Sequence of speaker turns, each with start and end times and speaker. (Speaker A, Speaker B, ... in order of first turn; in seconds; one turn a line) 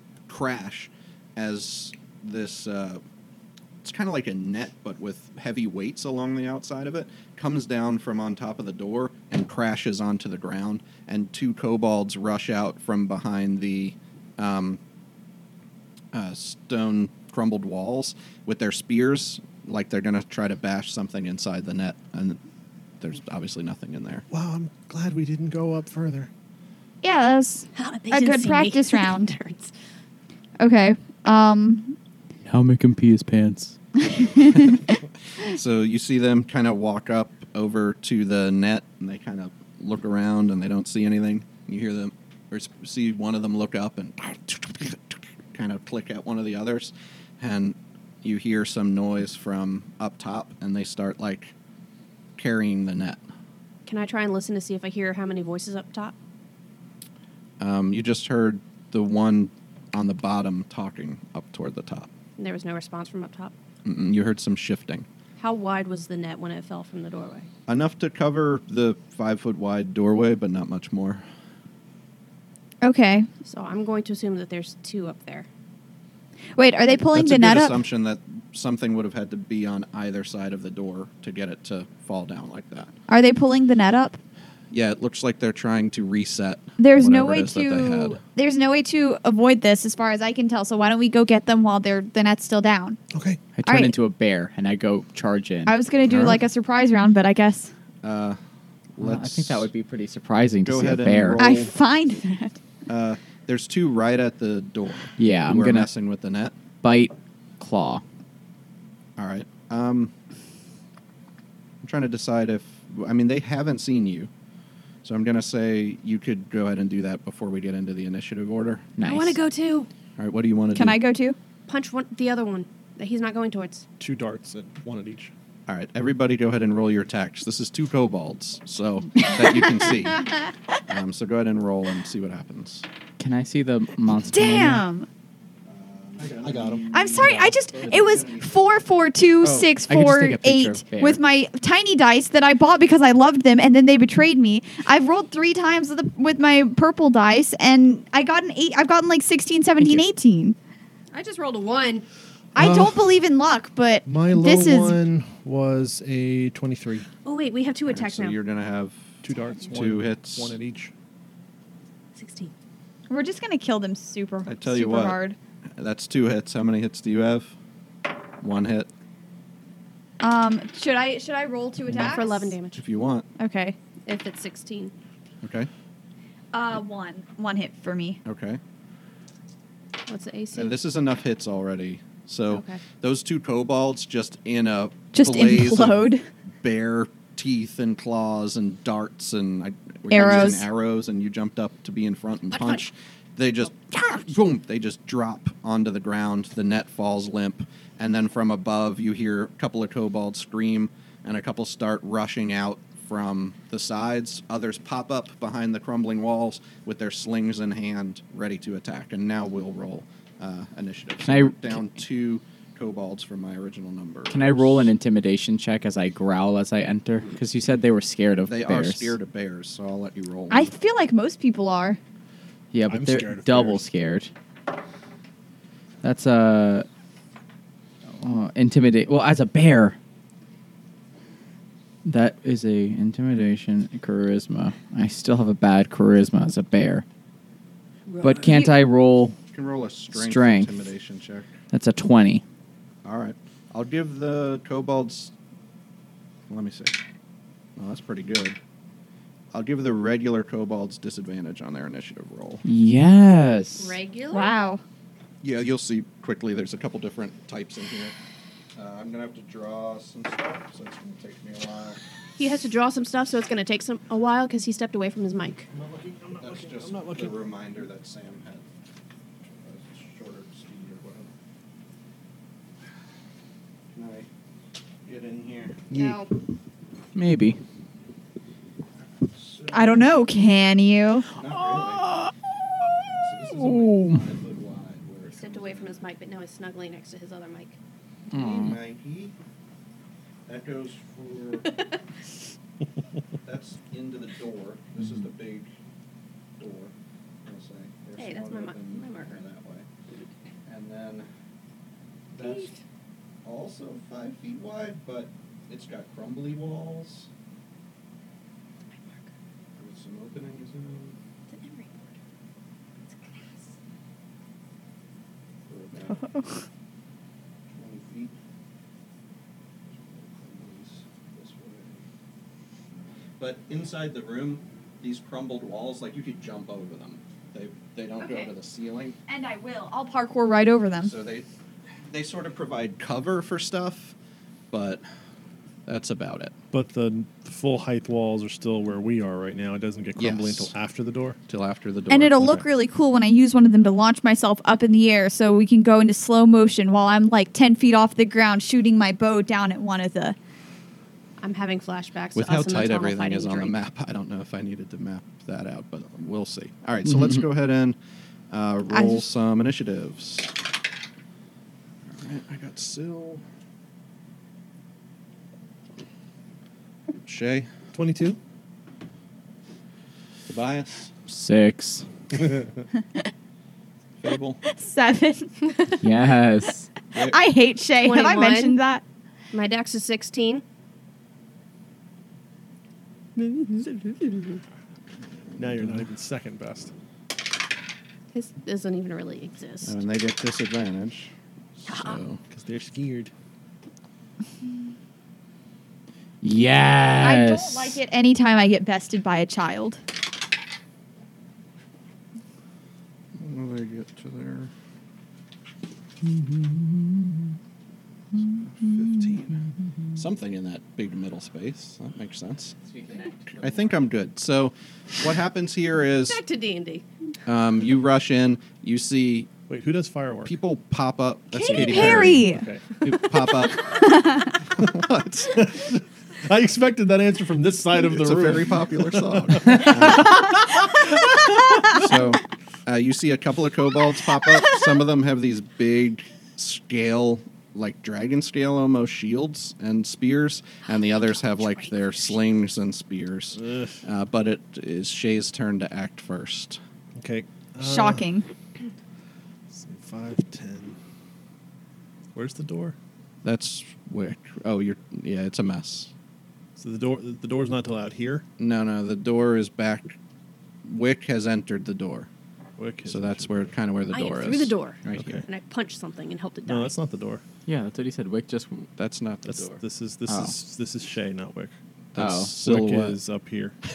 Speaker A: 0.3-3.0
Speaker A: 3.8-14.8
Speaker A: 16.1-22.4
Speaker A: 23.0-24.2
Speaker B: 24.3-26.3
Speaker C: 27.0-29.3
Speaker D: 27.7-29.7
Speaker C: 30.6-31.9
Speaker E: 32.4-33.8
Speaker C: 34.0-34.9
Speaker A: 34.5-34.8
Speaker A: 35.4-51.5
Speaker A: 52.4-53.2
Speaker D: 53.9-56.1
Speaker A: 57.6-62.1
Speaker D: 62.4-63.5
Speaker A: 63.8-65.1
Speaker D: 65.4-67.5
Speaker A: 67.7-71.2
Speaker C: 72.8-73.3
Speaker D: 73.4-75.5
Speaker C: 76.5-77.8
Speaker A: 77.1-82.9
Speaker C: 83.1-84.2
Speaker A: 84.7-88.2
Speaker C: 86.8-93.0
Speaker B: 93.1-93.4
Speaker E: 93.5-95.7
Speaker C: 93.6-93.9
Speaker C: 95.7-97.7
Speaker A: 98.0-98.4
Speaker A: 99.0-99.7
Speaker E: 99.0-101.4
Speaker A: 100.6-101.7
Speaker C: 101.4-102.6
Speaker A: 102.9-106.5
Speaker E: 105.2-105.9
Speaker E: 106.8-108.0
Speaker A: 109.2-110.1
Speaker A: 111.8-114.3
Speaker A: 115.0-118.9
Speaker E: 119.0-119.4
Speaker D: 119.0-119.9
Speaker A: 120.2-121.0
Speaker C: 120.7-121.4
Speaker D: 121.7-123.8
Speaker B: 124.0-125.3
Speaker A: 125.7-132.8
Speaker C: 129.4-129.9
Speaker E: 133.2-134.8
Speaker C: 134.3-135.1
Speaker A: 135.6-138.5
Speaker B: 136.2-137.5
Speaker C: 136.9-150.6
Speaker E: 139.4-141.2
Speaker E: 149.8-150.0
Speaker D: 151.1-152.1
Speaker C: 152.5-155.0
Speaker B: 152.6-153.0
Speaker B: 154.0-157.1
Speaker D: 157.2-158.4
Speaker A: 157.9-160.5
Speaker B: 159.2-160.9
Speaker D: 162.1-162.5
Speaker C: 163.1-165.4
Speaker A: 164.4-165.2
Speaker A: 165.8-167.5
Speaker A: 168.4-168.9
Speaker C: 170.2-172.5
Speaker D: 171.9-172.8
Speaker A: 172.7-173.2
Speaker C: 173.4-173.8
Speaker D: 174.1-174.9
Speaker A: 175.4-175.7
Speaker C: 176.5-178.2
Speaker A: 178.2-178.6
Speaker D: 180.1-180.8
Speaker A: 180.5-186.1
Speaker D: 182.5-182.8
Speaker C: 185.1-186.2
Speaker A: 186.6-214.9
Speaker C: 190.1-190.7
Speaker D: 192.5-192.8
Speaker E: 211.2-211.8
Speaker E: 214.3-219.2
Speaker A: 218.4-220.7
Speaker C: 220.5-222.0
Speaker E: 222.7-224.3
Speaker B: 222.9-223.8
Speaker E: 226.0-226.9
Speaker E: 228.2-230.0
Speaker E: 232.0-237.0
Speaker D: 238.1-238.6
Speaker E: 238.2-239.4
Speaker C: 238.4-238.7
Speaker A: 239.5-241.5
Speaker E: 240.1-240.7
Speaker E: 241.7-242.4
Speaker A: 243.0-245.3
Speaker A: 246.5-247.0
Speaker A: 247.8-248.6
Speaker A: 249.5-252.6
Speaker E: 252.6-254.0
Speaker D: 253.8-254.5
Speaker C: 254.3-254.8
Speaker A: 255.4-258.1
Speaker A: 258.7-262.0
Speaker D: 262.4-265.7
Speaker B: 265.7-267.4
Speaker A: 266.4-268.6
Speaker A: 269.5-271.3
Speaker A: 273.9-274.3
Speaker A: 275.0-275.8
Speaker D: 275.9-276.3
Speaker E: 277.1-277.6
Speaker A: 279.2-280.1
Speaker C: 279.7-281.3
Speaker A: 281.3-282.2
Speaker A: 283.1-286.0
Speaker E: 283.5-284.2
Speaker D: 285.3-287.8
Speaker E: 288.3-288.8
Speaker A: 288.3-289.3
Speaker A: 290.5-291.8
Speaker A: 293.4-295.7
Speaker A: 296.6-299.9
Speaker D: 298.2-299.4
Speaker A: 300.6-301.3
Speaker A: 302.3-302.7
Speaker D: 302.4-302.8
Speaker A: 303.4-307.3
Speaker A: 309.8-311.2
Speaker D: 311.5-312.1
Speaker A: 315.7-316.4
Speaker A: 317.7-318.3
Speaker A: 319.9-322.0
Speaker A: 323.4-329.2
Speaker D: 328.2-328.5
Speaker C: 329.3-331.1
Speaker A: 331.0-331.5
Speaker A: 332.0-334.1
Speaker A: 334.7-335.0
Speaker A: 335.9-336.5
Speaker B: 336.7-341.4
Speaker A: 340.1-340.7
Speaker A: 341.5-342.6
Speaker C: 342.1-350.4
Speaker D: 351.4-353.8
Speaker A: 352.3-358.0
Speaker E: 357.1-357.4
Speaker A: 358.5-360.5
Speaker C: 358.9-359.2
Speaker A: 362.1-363.4
Speaker A: 367.2-367.7
Speaker B: 367.9-368.4
Speaker A: 370.5-371.1
Speaker E: 371.3-372.1
Speaker A: 374.2-374.6
Speaker C: 374.6-375.6
Speaker E: 376.0-376.9
Speaker A: 377.1-377.4
Speaker C: 377.1-379.0
Speaker D: 378.0-378.8
Speaker D: 379.5-380.6
Speaker D: 383.4-384.6
Speaker B: 385.6-386.9
Speaker A: 385.6-386.0
Speaker D: 388.3-390.0
Speaker A: 389.8-392.4
Speaker D: 391.9-392.2
Speaker B: 392.5-393.3
Speaker E: 396.4-398.0
Speaker C: 397.2-400.0
Speaker A: 403.4-404.7
Speaker E: 406.2-407.4
Speaker A: 408.7-409.6
Speaker E: 408.9-409.3
Speaker A: 410.1-412.8
Speaker E: 412.9-413.6
Speaker A: 413.6-416.4
Speaker D: 416.2-417.0
Speaker A: 417.4-419.5
Speaker B: 419.7-420.5
Speaker A: 420.4-425.7
Speaker C: 421.6-422.6
Speaker B: 421.6-423.0
Speaker D: 421.9-422.1
Speaker C: 424.0-424.5
Speaker B: 425.6-432.1
Speaker A: 428.1-430.6
Speaker A: 431.9-446.8
Speaker D: 441.2-442.4
Speaker B: 443.6-444.0
Speaker B: 447.2-448.2
Speaker C: 447.8-448.5
Speaker B: 449.7-451.0
Speaker B: 452.3-452.9
Speaker A: 453.4-456.1
Speaker B: 456.8-458.4
Speaker A: 458.6-460.2
Speaker A: 460.8-462.3
Speaker B: 462.8-463.7
Speaker A: 463.1-465.4
Speaker D: 464.1-466.9
Speaker B: 465.1-465.4
Speaker B: 466.6-467.4
Speaker E: 467.7-468.9
Speaker A: 469.0-469.8
Speaker B: 469.5-471.8
Speaker E: 470.3-470.5
Speaker A: 472.1-473.2
Speaker E: 472.1-472.5
Speaker B: 472.6-473.8